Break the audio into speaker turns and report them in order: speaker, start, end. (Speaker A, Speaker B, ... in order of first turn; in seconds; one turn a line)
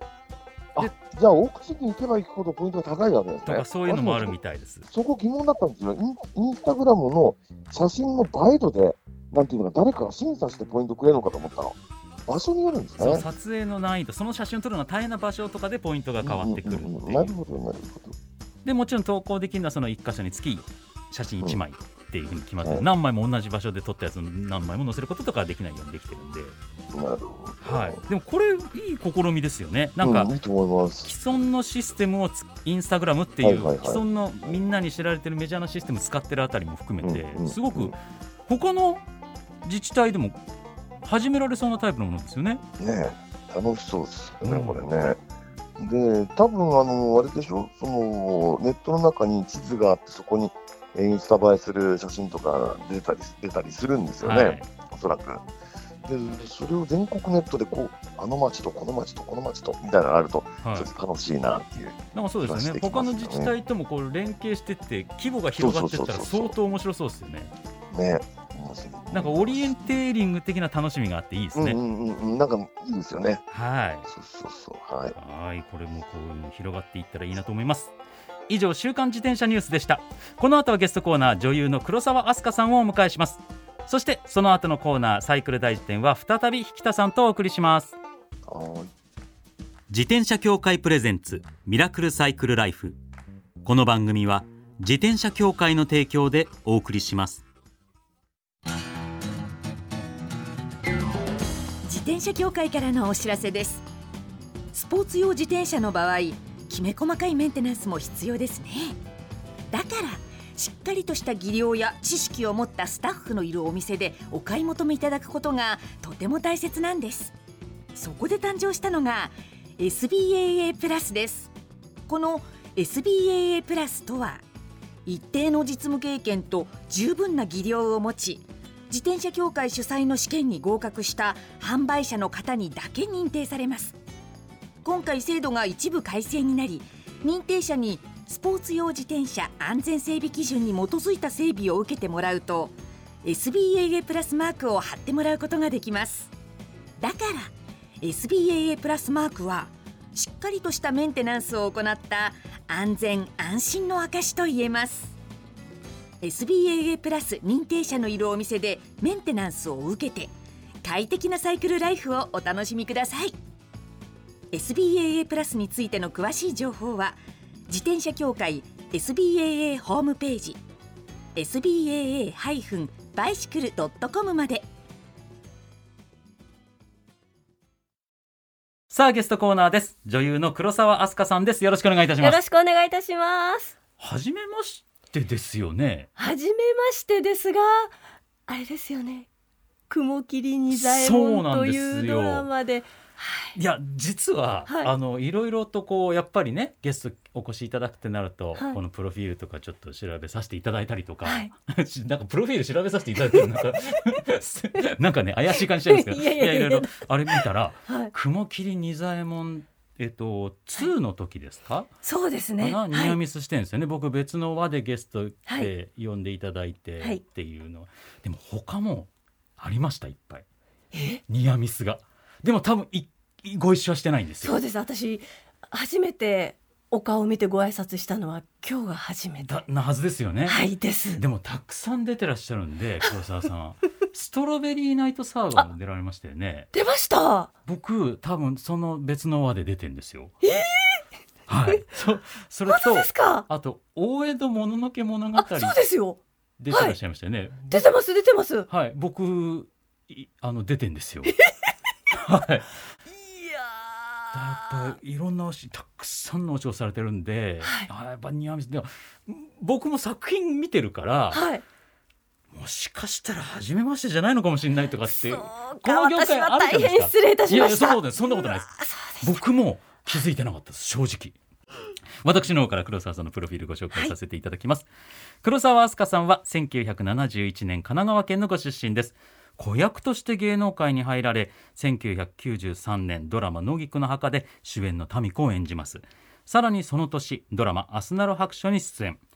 Speaker A: 0.7-4.3
Speaker B: 3.5-4.8
Speaker A: 4.9-13.2
Speaker B: 13.0-17.4
Speaker A: 16.2-18.2
Speaker B: 18.6-26.6
Speaker A: 26.9-28.0
Speaker B: 27.6-30.3
Speaker A: 30.0-31.1
Speaker B: 31.0-38.0
Speaker A: 33.4-34.6
Speaker A: 37.0-37.9
Speaker B: 38.5-39.0
Speaker B: 39.6-40.4
Speaker B: 41.0-42.6
Speaker A: 42.8-45.2
Speaker B: 44.4-44.8
Speaker A: 45.8-55.5
Speaker B: 54.2-54.6
Speaker A: 56.0-63.5
Speaker B: 60.6-60.9
Speaker B: 62.1-67.5
Speaker A: 65.6-66.5
Speaker A: 67.9-69.9
Speaker B: 69.1-71.8
Speaker A: 71.5-73.4
Speaker B: 73.5-74.1
Speaker A: 74.1-75.2
Speaker B: 75.2-77.9
Speaker B: 78.5-88.0
Speaker A: 88.5-88.9
Speaker B: 89.9-93.0
Speaker B: 93.6-97.4
Speaker C: 101.8-103.8
Speaker C: 104.7-109.0
Speaker C: 109.7-117.3
Speaker C: 117.9-121.5
Speaker C: 122.1-124.4
Speaker C: 125.0-134.0
Speaker C: 134.8-146.3
Speaker C: 147.0-155.1
Speaker C: 156.2-160.3
Speaker C: 160.8-163.3
Speaker C: 164.5-170.6
Speaker C: 171.3-174.7
Speaker B: 178.9-182.4
Speaker D: 182.2-183.7
Speaker B: 184.0-186.1
Speaker D: 186.2-187.9
Speaker D: 188.5-189.3
Speaker D: 189.9-193.6
Speaker B: 190.7-192.5
Speaker B: 193.5-211.9
Speaker D: 194.7-194.9
Speaker D: 201.2-201.5
Speaker D: 205.8-208.1
Speaker D: 212.0-213.2
Speaker B: 212.6-220.4
Speaker D: 220.9-221.2
Speaker B: 221.3-224.6
Speaker D: 224.4-229.6
Speaker B: 229.4-230.6
Speaker D: 230.4-231.2
Speaker B: 231.2-236.7
Speaker D: 236.7-237.5
Speaker B: 237.7-240.3
Speaker D: 240.4-241.0
Speaker B: 241.5-245.8
Speaker D: 242.7-243.5
Speaker D: 245.3-247.0
Speaker B: 246.6-247.9
Speaker D: 247.7-248.7
Speaker B: 248.7-251.3
Speaker B: 252.1-252.7
Speaker D: 253.2-254.9
Speaker B: 254.3-261.4
Speaker D: 257.6-257.9
Speaker D: 261.3-261.6
Speaker B: 262.5-271.4
Speaker D: 265.1-269.3
Speaker B: 272.2-274.9
Speaker B: 275.4-289.2